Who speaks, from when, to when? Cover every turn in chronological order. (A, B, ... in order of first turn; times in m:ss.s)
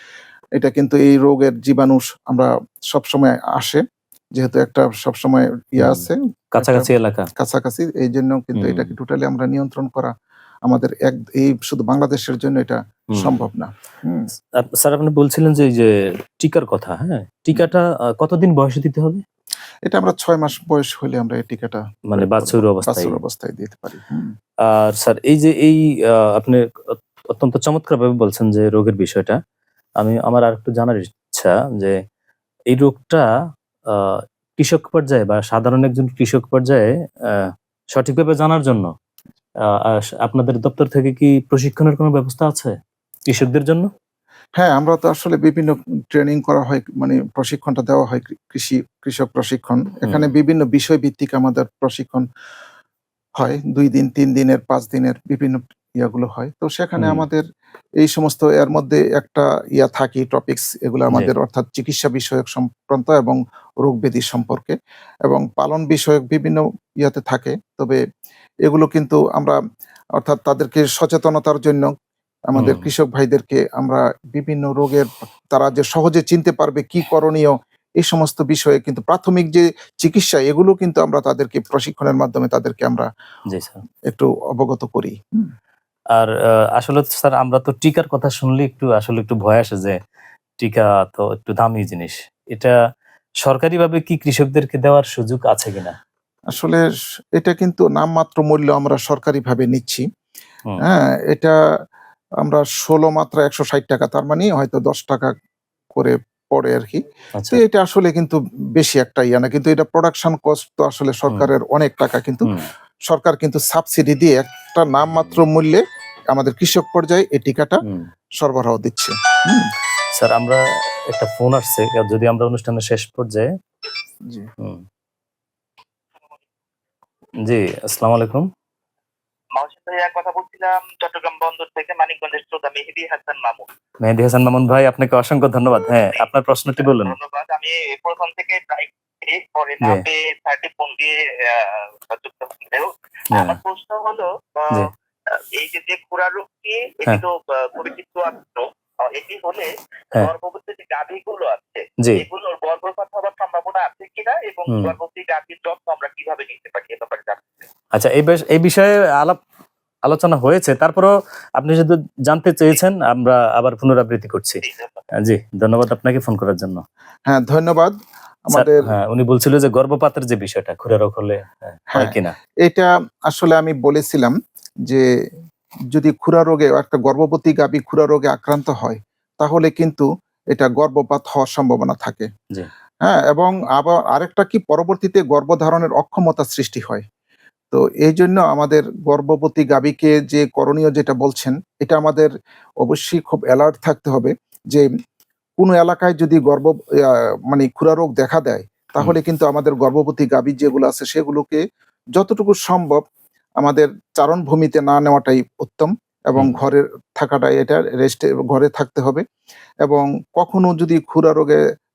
0:00.6-0:03.8 A
0:04.4-0:10.1 A
0:05.8-0:07.3 B
0:08.6-0:08.9 B
0:10.7-0:14.3 A
0:14.6-0:19.2 B
0:19.9-0:24.3 A
0:22.1-0:23.2 B
0:24.6-0:29.4 B
0:30.0-0:32.0 B
0:32.7-0:33.3 B
0:33.9-0:38.9 B
0:39.6-0:43.9 B
0:44.6-0:52.3 A
0:53.4-0:57.4 A
0:57.0-0:57.3 B
0:58.0-1:08.0 A
1:08.6-1:09.6 A
1:10.2-1:11.9 A
1:12.5-1:23.1 A
1:12.6-1:12.9 B
1:23.5-1:23.8 B
1:24.1-1:25.5 A
1:26.1-1:30.0 B
1:30.6-1:32.8 B
1:33.4-1:36.0 B
1:36.5-1:36.8 A
1:37.4-1:40.0 A
1:40.8-1:41.6 A
1:42.4-1:45.3 A
1:45.9-1:52.5 A
1:53.1-1:57.8 A
1:55.2-1:55.4 B
1:57.8-1:58.1 B
1:58.4-1:59.7 A
2:00.2-2:03.5 B
2:07.4-2:08.5 B
2:09.6-2:13.7 C
2:14.0-2:17.1 B
2:16.8-2:24.8 C
2:23.3-2:23.6 B
2:25.5-2:37.6 C
2:37.9-2:39.4 B
2:40.0-2:44.6 B
2:44.6-2:44.9 C
2:45.1-2:46.8 B
2:47.3-2:48.0 A
2:48.5-2:48.9 A
2:48.5-2:52.4 B
2:51.9-2:55.1 A
2:55.9-3:02.3 A
3:03.0-3:07.0 A
3:07.7-3:14.9 A
3:15.6-3:21.6 A
3:22.2-3:23.0 A
3:23.6-3:29.2 A
3:29.8-3:31.6 A